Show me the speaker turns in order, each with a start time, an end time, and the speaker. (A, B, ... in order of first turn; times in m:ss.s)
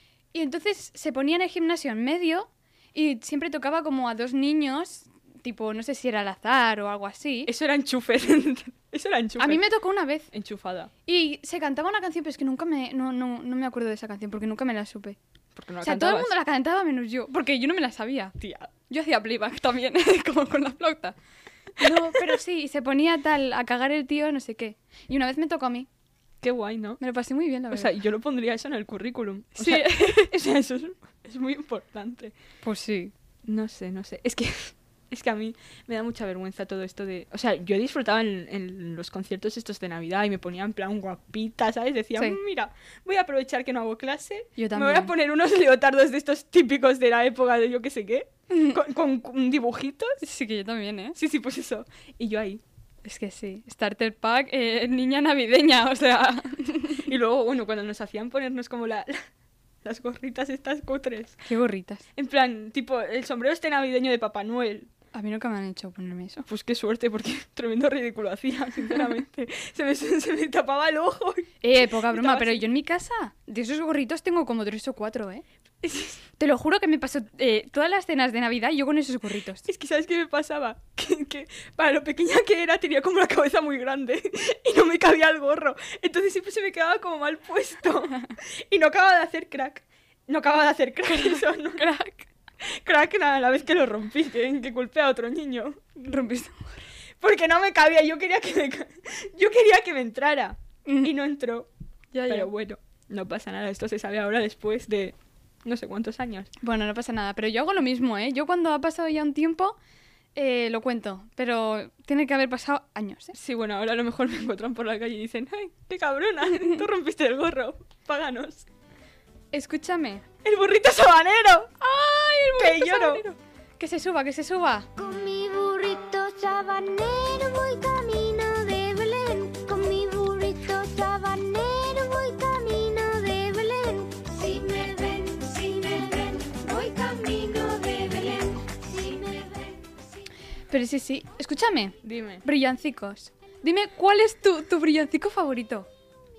0:00.3-0:07.5 A
0:07.5-0:09.6 B
0:09.4-0:10.3 A
0:10.3-0:10.9 B
0:11.0-0:15.2 A
0:15.5-0:16.3 B
0:15.8-0:18.4 A
0:18.4-0:18.7 B
0:18.9-0:21.2 A
0:21.8-0:25.9 A
0:26.4-0:27.0 B
0:27.0-0:27.9 A
0:27.7-0:32.3 B
0:29.6-0:30.3 A
0:32.6-0:33.1 A
0:33.5-0:50.2 B
0:44.6-0:45.1 A
0:48.5-0:48.8 A
0:50.2-0:51.1 A
0:51.2-0:52.6 B
0:53.0-0:57.0 A
0:57.0-0:59.3 B
0:59.8-1:01.4 B
1:01.4-1:02.0 A
1:02.2-1:04.9 B
1:05.1-1:06.4 A
1:06.5-1:12.6 B
1:11.6-1:15.4 A
1:15.8-1:16.2 B
1:16.4-1:19.6 A
1:19.7-1:31.8 B
1:31.1-1:32.3 A
1:32.6-1:36.0 B
1:36.0-1:36.9 A
1:37.2-1:41.7 B
1:40.9-1:41.1 A
1:42.1-1:42.5 A
1:42.3-1:46.5 B
1:46.6-1:49.8 A
1:50.4-1:53.4 A
1:53.4-1:58.7 B
1:59.5-2:00.2 A
2:00.4-2:01.7 B
2:01.8-2:04.9 A
2:02.6-2:03.2 B
2:05.0-2:19.8 C
2:20.7-2:25.9 A
2:22.0-2:22.4 B